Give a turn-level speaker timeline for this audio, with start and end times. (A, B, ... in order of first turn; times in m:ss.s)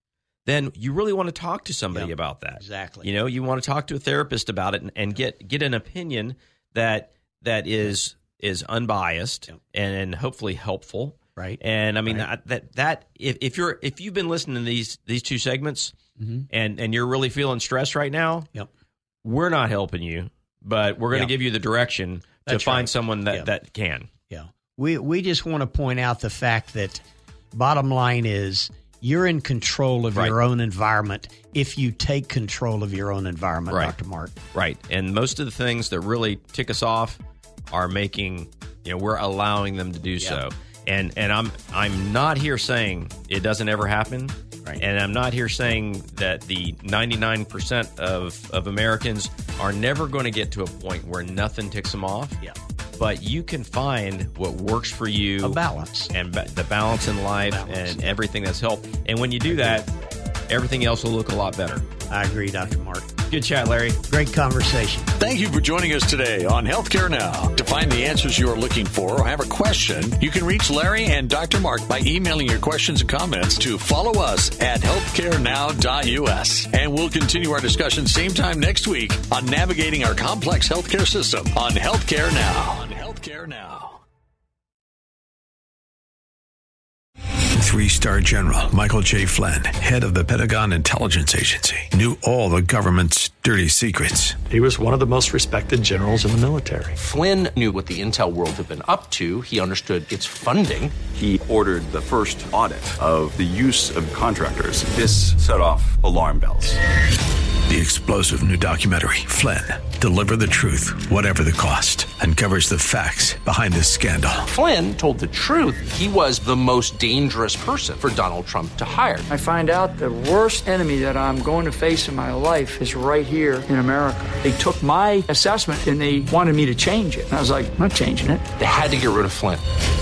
0:00.4-0:15.9 A
0:01.9-0:03.1 B
0:11.4-0:12.2 B
0:16.5-0:18.5 A
0:19.2-0:24.1 A
0:22.4-0:23.5 B
0:24.3-0:34.3 B
0:34.5-0:37.2 A
0:37.7-0:52.4 A
0:53.0-0:55.6 A
0:55.4-0:56.1 B
0:56.1-0:59.9 A
0:57.4-0:58.1 B
0:59.5-0:59.8 B
1:00.5-1:01.8 A
1:02.1-1:03.1 B
1:03.3-1:04.0 A
1:04.1-1:05.1 B
1:05.2-1:24.0 C
1:27.5-1:34.4 D
1:34.5-1:36.9 E
1:36.9-1:41.0 F
1:41.1-1:46.8 G
1:47.6-1:54.4 D
1:54.4-1:59.2 F
1:59.3-2:08.4 H
2:08.6-2:09.6 F